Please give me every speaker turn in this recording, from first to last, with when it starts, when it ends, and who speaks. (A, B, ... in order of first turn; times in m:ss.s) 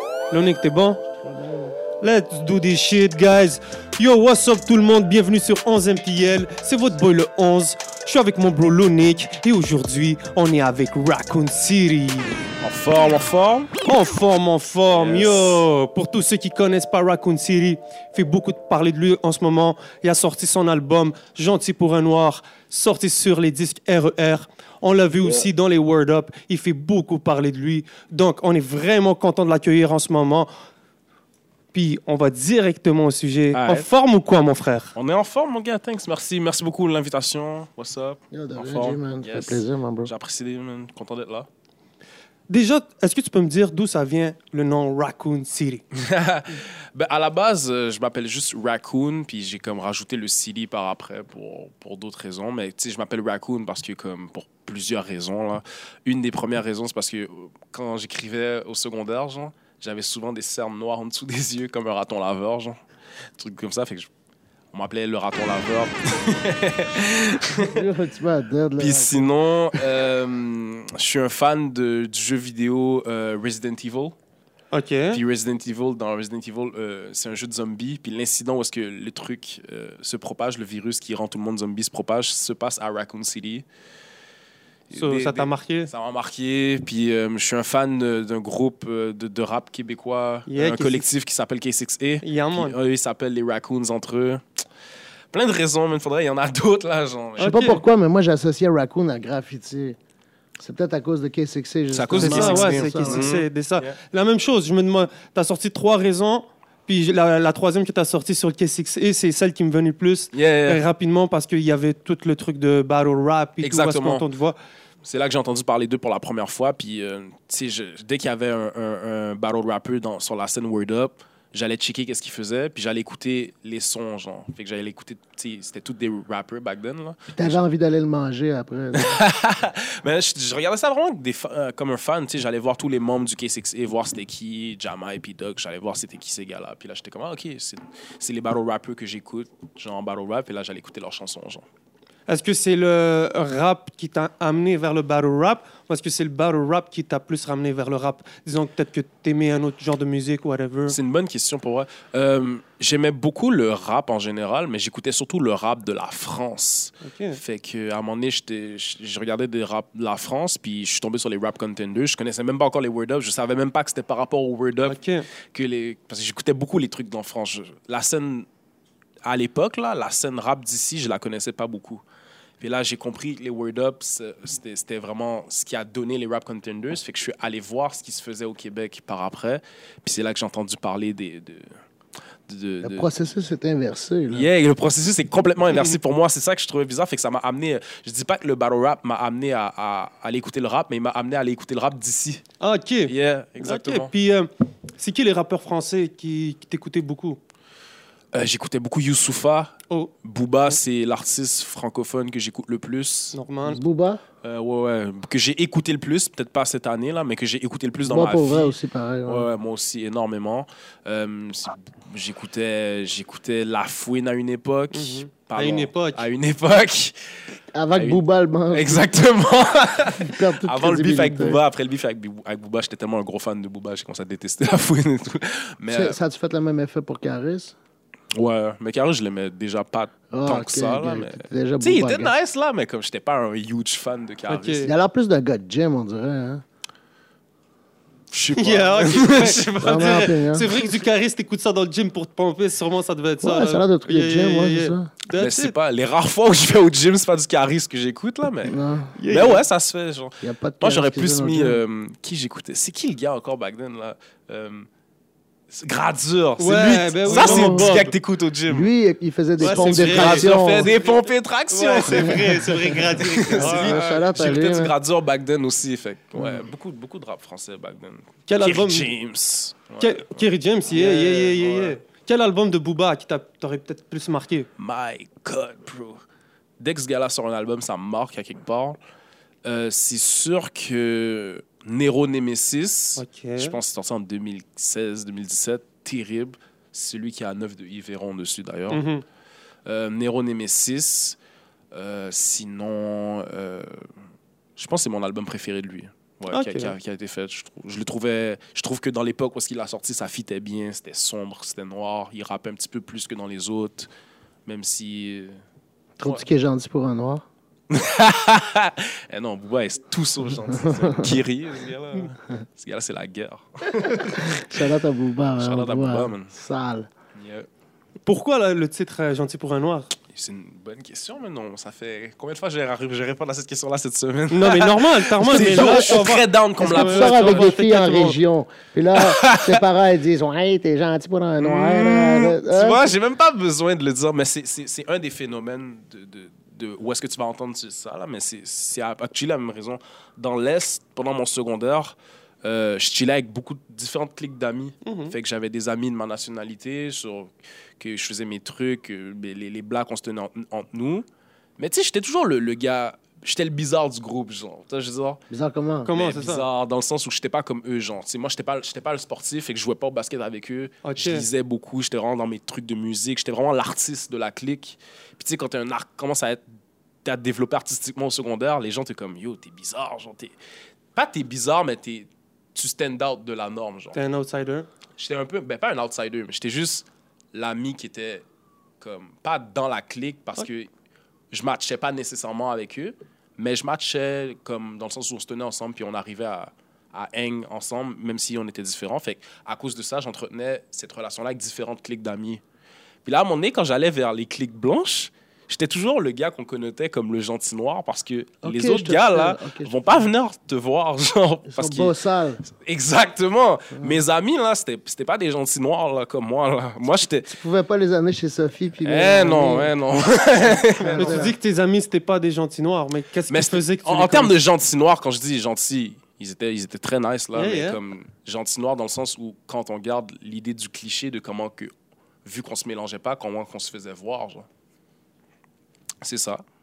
0:00.3-0:01.0 A
0:01.2-0:01.8 B
0:02.0-0:12.3 A
0:12.6-0:13.7 C
0:13.8-0:30.5 A
0:14.9-0:15.6 C
0:31.7-0:34.9 A
0:33.5-0:33.9 C
0:35.0-0:41.5 C
0:38.3-0:40.1 B
0:42.5-0:45.8 A
0:45.9-1:02.8 C
1:03.4-1:04.1 C
1:04.7-1:07.9 C
1:07.3-1:09.3 B
1:08.8-1:14.2 C
1:14.7-1:15.2 A
1:15.1-1:23.7 C
1:24.9-1:34.6 C
1:24.9-1:25.9 A
1:30.5-1:31.1 A
1:32.2-1:32.8 A
1:35.3-1:37.6 C
1:37.4-1:37.8 A
1:37.4-1:40.0 B
1:40.6-1:43.3 B
1:41.9-1:44.0 C
1:42.2-1:54.6 A
1:50.3-1:50.8 C
1:53.6-1:54.2 C
1:55.0-2:07.6 C
2:07.4-2:09.2 B
2:08.9-2:21.7 C
2:22.3-2:31.0 A
2:30.9-2:48.5 C
2:37.0-2:37.4 A
2:44.9-2:45.3 A
2:49.2-2:52.0 C
2:52.6-3:01.8 C
3:02.5-3:03.1 C
3:02.8-3:04.5 B
3:04.3-3:12.4 C
3:12.6-3:17.4 A
3:13.1-3:14.1 C
3:18.3-3:23.4 C
3:23.3-3:23.8 A
3:23.7-3:24.2 B
3:24.4-3:37.3 C
3:28.1-3:29.5 B
3:34.9-3:36.3 A
3:37.7-3:39.1 B
3:37.9-3:46.2 C
3:40.2-3:41.6 B
3:45.9-3:47.8 B
3:48.3-3:54.9 C
3:50.3-3:52.3 B
3:54.5-3:54.9 A
3:54.8-3:56.6 B
3:58.3-4:01.0 C
3:58.6-4:05.8 A
3:59.8-4:00.7 B
4:03.4-4:05.1 B
4:05.3-4:14.9 C
4:08.6-4:09.2 B
4:09.2-4:09.6 A
4:10.4-4:11.8 B
4:15.7-4:18.9 C
4:16.6-4:18.1 A
4:17.3-4:18.0 B
4:18.7-4:20.9 B
4:19.6-4:21.2 A
4:19.6-4:32.0 C
4:21.7-4:24.0 A
4:23.5-4:24.9 B
4:28.5-4:29.1 A
4:30.0-4:34.7 A
4:34.8-4:36.2 C
4:36.8-4:39.0 C
4:39.6-4:49.0 C
4:43.2-4:43.8 A
4:48.9-4:49.2 A
4:49.9-4:51.4 C
4:51.9-4:54.1 C
4:54.8-5:04.1 C
4:56.5-4:57.0 A
5:04.7-5:05.6 C
5:06.2-5:07.4 B
5:07.9-5:14.8 C
5:10.8-5:11.3 B
5:14.1-5:17.1 B
5:15.6-5:16.5 C
5:17.4-5:17.7 C
5:18.3-5:20.1 A
5:20.3-5:27.8 C
5:24.5-5:28.4 A
5:25.6-5:26.2 B
5:26.8-5:33.1 B
5:29.1-5:29.8 C
5:31.6-5:51.3 C
5:45.0-5:45.4 A
5:51.8-5:55.4 C
5:55.5-5:56.1 B
5:56.1-5:56.7 A
5:56.1-6:06.6 C
6:01.0-6:01.5 A
6:07.2-6:10.6 C
6:11.1-6:14.2 C
6:14.1-6:14.9 A
6:15.2-6:18.4 C
6:19.0-6:20.9 C
6:21.5-6:32.6 C
6:33.2-6:47.5 C
6:38.6-6:40.3 B
6:41.7-6:42.6 B
6:47.5-6:49.9 B
6:49.0-6:51.5 C
6:50.6-6:51.6 B
6:51.1-6:54.6 A
6:53.5-7:01.9 C
6:57.6-6:58.0 A
7:02.4-7:04.7 C
7:06.2-7:06.6 C